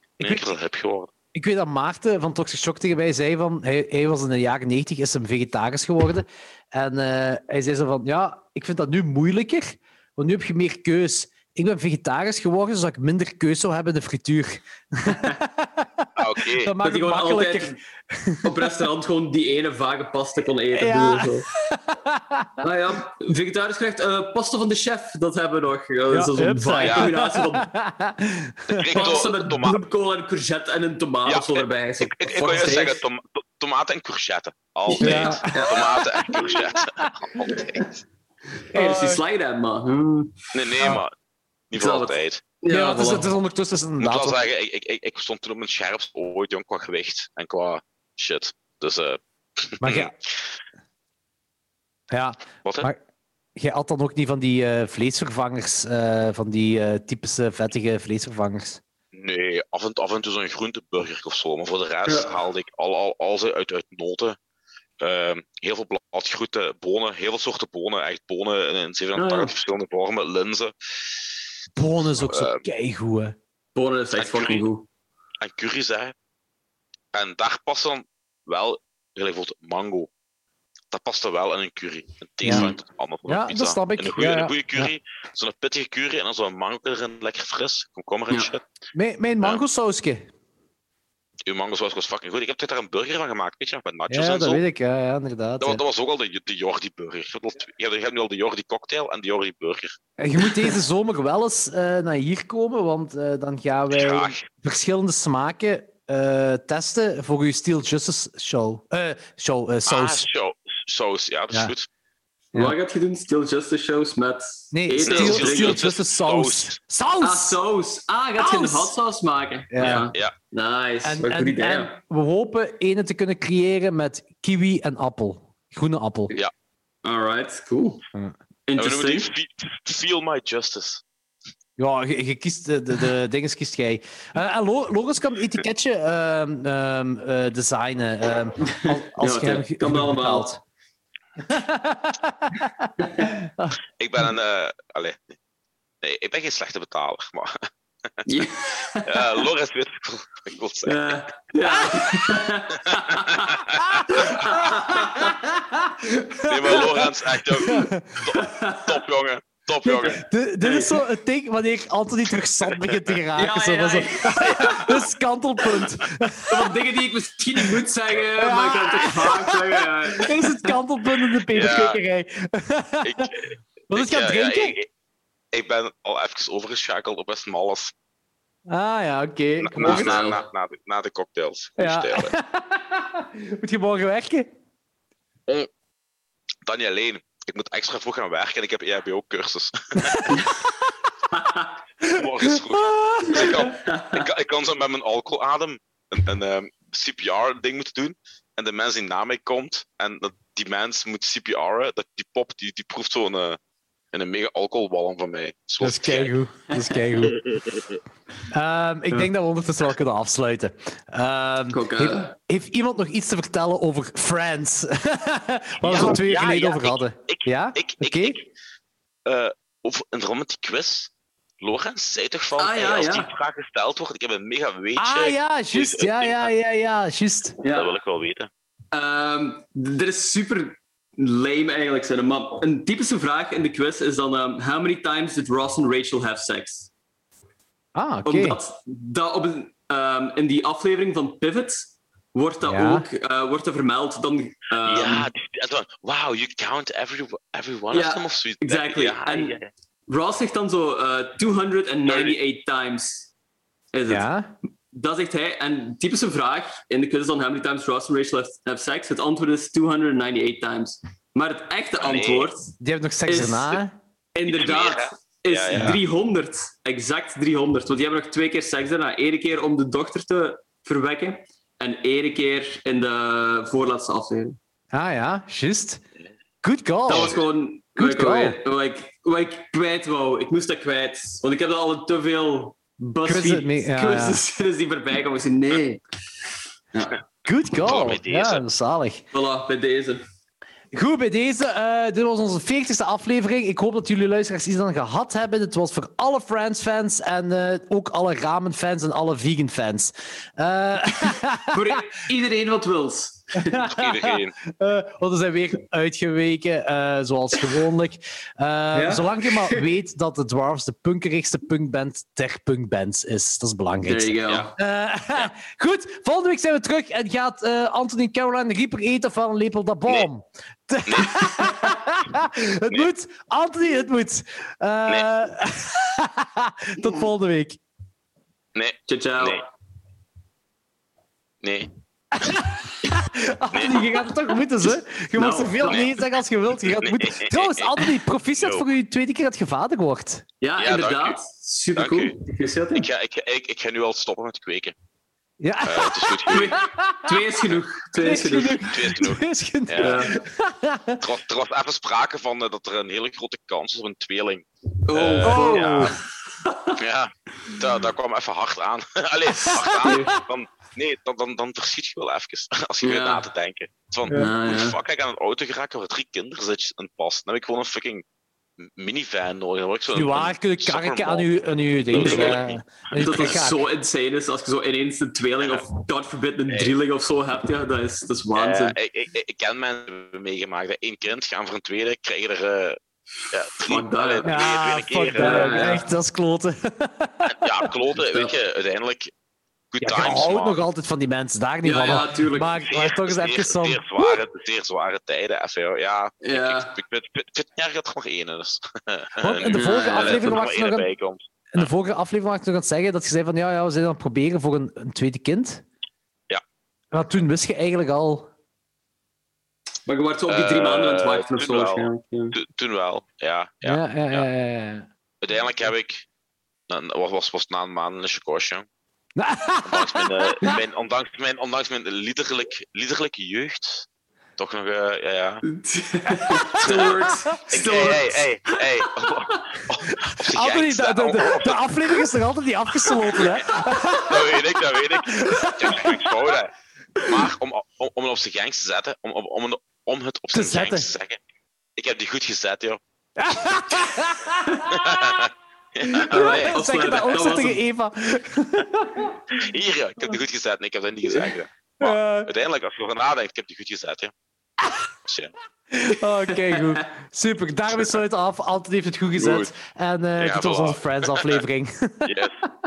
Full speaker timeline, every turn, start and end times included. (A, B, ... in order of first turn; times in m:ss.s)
0:00.2-0:01.1 A
0:01.3-0:18.6 B
0:15.1-0:15.4 C
0:16.2-0:16.8 A
0:16.8-0:17.8 C
0:18.4-0:21.5 C
0:20.7-0:22.6 B
0:22.6-0:27.7 C
0:26.1-0:29.3 B
0:26.8-0:27.1 A
0:28.7-0:29.8 A
0:28.9-0:33.0 C
0:31.3-0:38.0 A
0:34.9-0:36.4 C
0:35.0-0:35.9 B
0:38.7-0:40.5 C
0:38.7-0:39.2 B
0:40.5-0:41.1 A
0:41.7-0:42.4 A
0:41.8-0:43.3 C
0:42.7-0:44.4 B
0:44.0-0:50.3 A
0:49.8-0:50.1 B
0:52.1-0:53.0 B
0:52.6-0:52.9 A
0:53.6-0:58.8 B
0:59.1-1:04.4 A
1:02.1-1:02.3 C
1:05.0-1:10.7 A
1:09.2-1:09.5 C
1:11.8-1:13.4 B
1:12.2-1:12.6 A
1:13.8-1:14.9 C
1:14.2-1:14.6 A
1:15.4-1:16.1 A
1:17.1-1:20.1 A
1:20.9-1:28.6 A
1:22.4-1:22.7 B
1:22.5-1:22.8 C
1:23.3-1:24.9 B
1:28.9-1:30.3 B
1:31.5-1:34.6 A
1:34.1-1:35.8 B
1:35.6-1:40.0 A
1:40.2-1:50.3 B
1:43.9-1:44.5 A
1:49.9-1:51.9 A
1:52.5-1:55.8 C
1:54.7-1:57.6 B
1:55.1-1:56.8 A
1:57.2-2:02.0 C
1:58.4-1:58.9 B
1:59.7-2:00.1 B
1:59.8-2:00.3 A
2:01.0-2:06.3 B
2:07.0-2:08.1 C
2:08.7-2:09.3 C
2:08.8-2:11.0 A
2:11.8-2:20.6 B
2:18.6-2:20.5 C
2:21.4-2:23.8 B
2:23.0-2:23.3 C
2:24.0-2:25.2 A
2:26.0-2:27.7 A
2:28.3-2:29.3 C
2:29.0-2:31.2 A
2:30.8-2:33.6 C
2:32.8-2:34.5 A
2:33.9-2:38.3 B
2:34.1-2:35.3 C
2:36.5-2:40.2 A
2:38.3-2:38.9 C
2:39.8-2:46.7 B
2:40.6-2:41.0 C
2:43.4-2:44.9 C
2:44.4-2:45.0 A
2:46.5-2:50.7 C
2:48.4-2:53.3 B
2:51.5-2:52.0 A
2:53.0-2:54.9 A
2:53.9-2:54.8 B
2:55.5-2:57.9 A
2:58.7-3:00.2 B
2:59.6-3:02.3 A
2:59.8-3:00.4 C
3:01.8-3:04.5 B
3:06.7-3:10.4 A
3:10.3-3:10.6 C
3:11.3-3:11.7 C
3:12.0-3:13.7 B
3:12.1-3:23.6 A
3:13.6-3:14.3 C
3:24.1-3:26.3 A
3:25.8-3:27.4 B
3:26.7-3:27.2 C
3:27.4-3:27.8 A
3:28.5-3:38.4 B
3:31.7-3:32.4 C
3:35.8-3:38.5 A
3:39.3-3:41.1 A
3:41.6-3:46.5 A
3:42.6-3:43.3 C
3:45.0-3:47.6 B
3:47.6-3:47.9 C
3:47.7-3:48.5 A
3:48.9-3:56.9 C
3:58.0-3:58.6 B
3:58.2-4:05.3 C
4:02.6-4:03.1 B
4:04.8-4:09.7 A
4:07.9-4:13.3 C
4:12.1-4:12.4 A
4:13.9-4:14.3 C
4:14.1-4:14.5 B
4:14.9-4:22.7 C
4:22.0-4:22.5 A
4:22.8-4:23.9 B
4:23.3-4:23.8 C
4:24.4-4:34.6 C
4:24.5-4:26.0 A
4:25.7-4:26.0 B
4:34.9-4:36.0 B
4:36.6-4:37.4 B
4:37.1-4:46.0 C
4:38.0-4:38.6 B
4:43.2-4:44.4 B
4:46.9-4:47.2 C
4:47.4-4:49.2 B
4:47.8-4:48.6 A
4:49.3-4:50.2 C
4:50.9-5:01.8 B
5:01.7-5:03.7 C
5:03.6-5:27.8 B
5:03.8-5:04.6 A
5:08.9-5:09.9 C
5:14.0-5:14.7 C
5:21.1-5:21.5 A
5:27.0-5:27.2 C
5:28.8-5:29.6 A
5:29.1-5:29.6 C
5:31.6-5:31.9 A
5:32.4-5:40.5 B
5:33.7-5:34.0 A
5:35.4-5:36.1 C
5:37.0-5:38.0 A
5:38.6-5:38.8 A
5:40.6-5:43.1 C
5:40.8-5:41.4 A
5:42.0-5:42.4 A
5:43.0-5:44.9 A
5:45.6-5:47.5 B
5:45.8-5:46.8 A
5:46.5-5:48.8 C
5:48.2-5:51.2 B
5:48.9-5:50.3 A
5:50.0-5:50.4 C
5:51.2-5:56.2 A
5:55.1-5:57.0 C
5:55.4-5:56.2 B
5:57.0-6:08.2 A
5:59.7-6:00.2 B
6:00.0-6:00.4 C
6:03.0-6:03.4 C
6:04.3-6:05.0 C
6:08.8-6:11.6 A
6:10.1-6:13.8 B
6:12.1-6:13.6 A
6:12.1-6:12.6 C
6:13.2-6:19.0 C
6:18.6-6:23.0 A
6:23.5-6:26.0 A
6:23.8-6:24.5 C
6:24.4-6:27.8 B
6:25.4-6:26.0 C
6:27.4-6:29.3 A
6:28.2-6:28.5 C
6:29.9-6:30.8 A
6:30.0-6:34.4 B
6:31.8-6:32.8 C
6:32.9-6:41.9 A
6:36.4-6:37.0 C
6:39.4-6:41.1 B
6:39.7-6:40.6 C
6:41.7-6:45.8 B
6:47.1-6:48.5 B
6:50.1-6:52.6 C
6:50.5-6:54.5 A
6:53.8-6:55.1 B
6:55.4-6:56.3 A
6:56.9-6:58.9 A
6:59.4-7:00.7 B
6:59.8-7:04.1 A
7:04.6-7:05.7 A
7:05.7-7:08.8 C
7:06.8-7:12.0 A
7:06.8-7:07.4 B
7:10.2-7:14.7 B
7:13.3-7:13.7 A
7:14.2-7:21.4 A
7:15.2-7:16.6 B
7:20.5-7:21.1 B
7:22.0-7:23.0 A
7:23.4-7:25.4 B
7:24.9-7:26.8 A
7:26.0-7:29.4 B
7:26.3-7:27.8 C
7:29.5-7:34.3 A
7:32.0-7:32.5 B
7:35.2-7:35.5 A
7:35.9-7:42.5 B
7:36.5-7:37.0 C
7:40.4-7:41.6 A
7:42.2-7:42.6 A